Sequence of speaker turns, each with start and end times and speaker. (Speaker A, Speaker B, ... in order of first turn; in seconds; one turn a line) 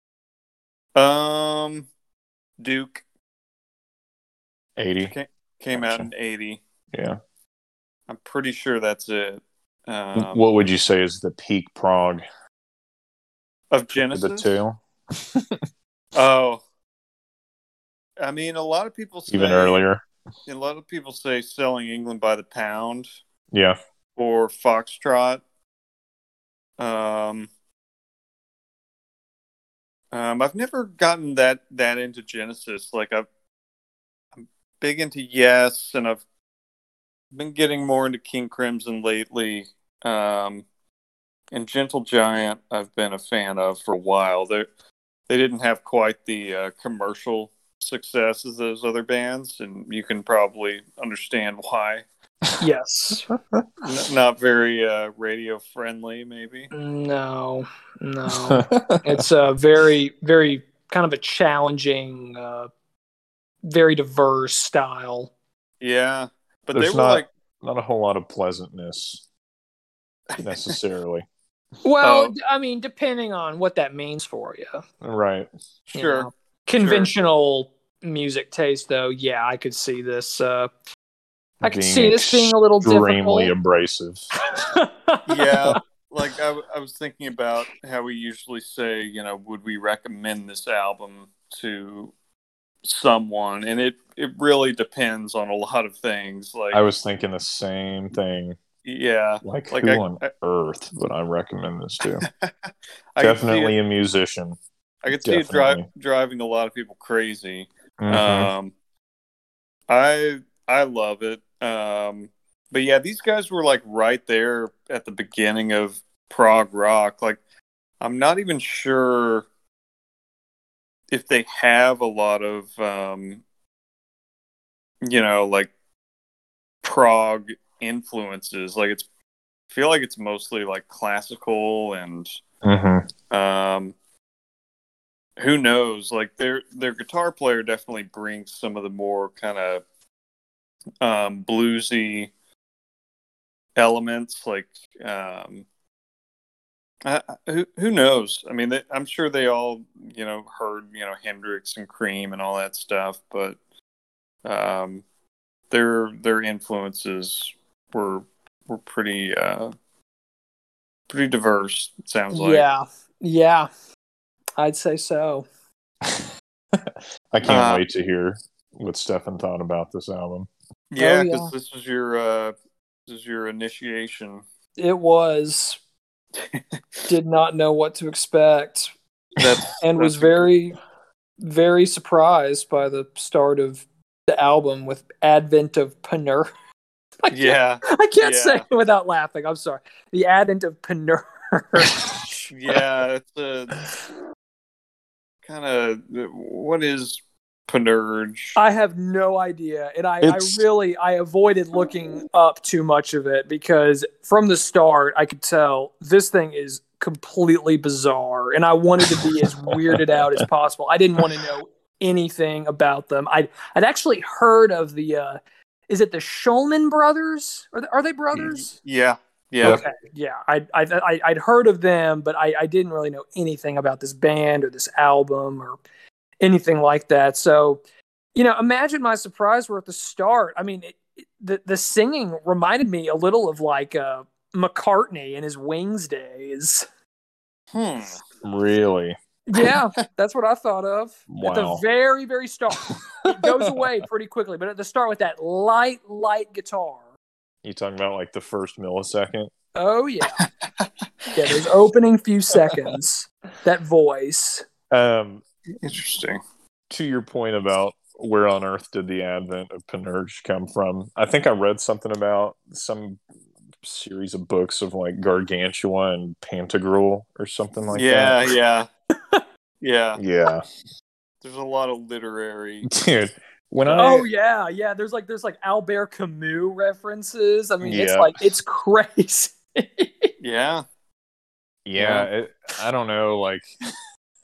Speaker A: 0.9-1.9
Speaker A: 2.6-3.0
Speaker B: 4.8-5.1
Speaker A: 5.1-6.6
Speaker B: 5.7-6.1
Speaker B: 6.9-7.2
Speaker A: 8.1-10.4
Speaker B: 10.1-12.2
Speaker A: 13.7-14.5
Speaker B: 13.9-15.6
Speaker A: 16.1-16.6
Speaker A: 18.2-19.8
Speaker B: 19.3-20.0
Speaker A: 20.5-23.1
Speaker B: 23.5-23.8
Speaker A: 24.2-25.4
Speaker A: 26.8-27.5
Speaker A: 30.1-33.3
Speaker A: 34.4-36.2
Speaker A: 37.3-40.6
Speaker A: 41.5-44.7
Speaker A: 45.3-52.0
Speaker C: 52.6-53.3
Speaker A: 53.8-56.7
Speaker C: 56.7-62.7
Speaker B: 58.3-59.2
Speaker C: 63.6-65.3
Speaker A: 65.8-67.3
Speaker B: 66.7-69.2
Speaker A: 70.4-70.8
Speaker B: 70.4-71.2
Speaker C: 71.8-74.8
Speaker A: 72.0-72.3
Speaker B: 75.0-75.5
Speaker C: 75.9-80.7
Speaker A: 75.9-77.1
Speaker C: 81.6-83.5
Speaker B: 81.6-84.2
Speaker C: 84.5-85.5
Speaker A: 85.2-92.1
Speaker A: 92.8-96.8
Speaker B: 96.7-98.6
Speaker A: 98.8-100.3
Speaker B: 99.4-102.3
Speaker A: 102.2-102.5
Speaker A: 103.1-103.7
Speaker B: 103.2-104.6
Speaker A: 105.0-108.7
Speaker B: 105.2-105.8
Speaker B: 108.0-108.5
Speaker A: 109.9-117.4
Speaker A: 118.0-119.5
Speaker A: 121.1-123.4
Speaker A: 125.0-125.7
Speaker A: 126.8-129.1
Speaker A: 129.7-132.3
Speaker B: 132.6-133.1
Speaker A: 133.3-133.9
Speaker A: 135.4-139.8
Speaker A: 141.0-142.3
Speaker A: 143.8-145.7
Speaker A: 147.0-153.6
Speaker A: 154.4-155.0
Speaker A: 155.7-159.7
Speaker A: 161.1-162.7
Speaker C: 162.3-163.7
Speaker C: 164.6-165.4
Speaker B: 166.1-170.5
Speaker A: 167.4-167.8
Speaker A: 170.9-172.5
Speaker C: 171.0-171.5
Speaker A: 173.1-174.4
Speaker C: 174.8-175.8
Speaker C: 177.1-178.9
Speaker A: 179.4-180.5
Speaker C: 179.8-180.8
Speaker C: 181.4-186.5
Speaker C: 187.2-192.4
Speaker A: 187.3-188.6
Speaker A: 192.5-193.8
Speaker A: 195.4-198.6
Speaker C: 198.6-215.4
Speaker B: 200.2-200.6
Speaker B: 209.0-210.0
Speaker C: 215.9-218.7
Speaker A: 218.3-219.8
Speaker C: 219.6-225.8
Speaker C: 226.4-227.8
Speaker C: 228.3-236.8
Speaker A: 237.7-238.2
Speaker B: 238.4-239.2
Speaker C: 239.5-247.0
Speaker B: 241.3-241.8
Speaker B: 242.9-243.9
Speaker B: 247.6-249.5
Speaker C: 249.8-250.4
Speaker A: 250.4-250.9
Speaker C: 251.3-254.6
Speaker B: 254.9-255.4
Speaker A: 255.8-256.4
Speaker B: 256.9-263.2
Speaker B: 263.8-268.5
Speaker A: 267.9-268.9
Speaker A: 269.8-270.2
Speaker B: 270.2-270.6
Speaker A: 271.4-272.9
Speaker B: 272.9-274.2
Speaker A: 273.8-274.2
Speaker C: 273.9-280.3
Speaker B: 277.8-278.4
Speaker A: 280.4-280.8
Speaker B: 281.9-283.7
Speaker A: 282.0-282.3